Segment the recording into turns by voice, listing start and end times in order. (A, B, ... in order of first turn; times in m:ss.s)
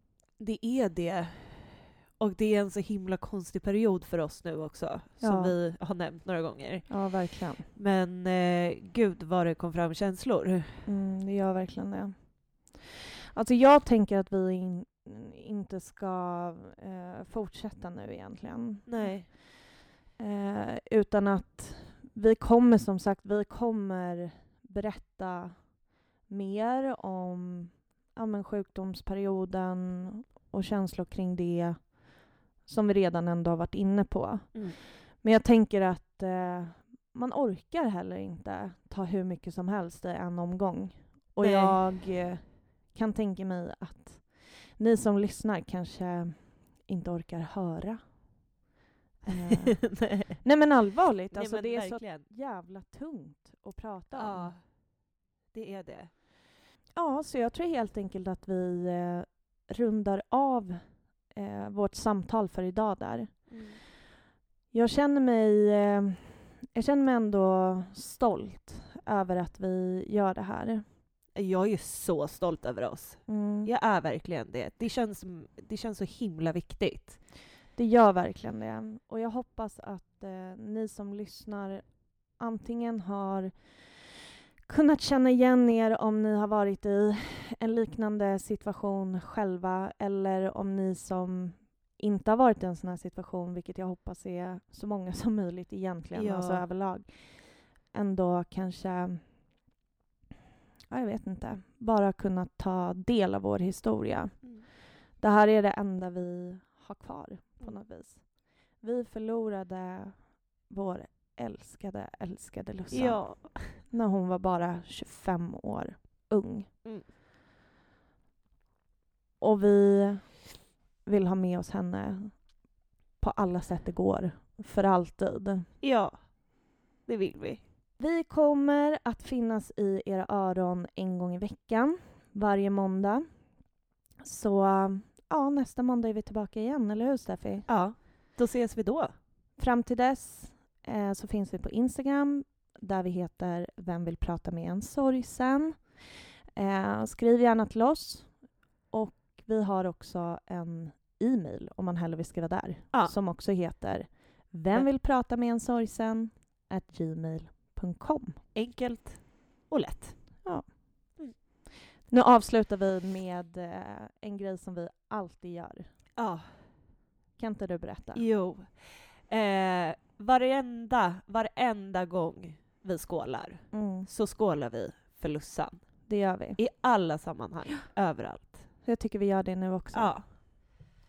0:00.4-0:10.9 A
0:05.2-0:05.6 B
0:06.9-0:07.7 B
0:10.8-0:48.5 B
0:18.8-0:19.3 A
0:34.5-0:34.8 A
0:41.4-0:42.0 A
0:49.2-0:54.6 B
0:49.9-0:50.4 A
0:51.3-0:52.3 A
0:54.1-0:56.1 A
0:56.9-1:03.8 B
1:03.5-1:03.8 A
1:04.7-1:10.8 B
1:11.3-1:17.2 A
1:13.3-1:13.7 B
1:17.8-1:24.1 B
1:24.6-1:39.6 B
1:36.1-1:36.6 A
1:40.9-1:56.8 B
1:44.4-1:44.7 A
1:52.9-1:53.8 A
1:59.4-2:05.7 B
2:05.8-2:07.6 A
2:08.0-2:17.7 B
2:17.7-2:19.1 A
2:19.6-2:38.4 B
2:32.9-2:33.2 A
2:38.5-2:40.4 A
2:40.4-2:41.6 B
2:42.1-2:46.1 B
2:46.2-2:46.9 A
2:47.4-2:48.2 B
2:48.1-2:58.8 A
2:53.7-2:54.1 B
2:56.1-2:56.6 B
2:58.8-3:00.2 B
2:59.9-3:00.2 A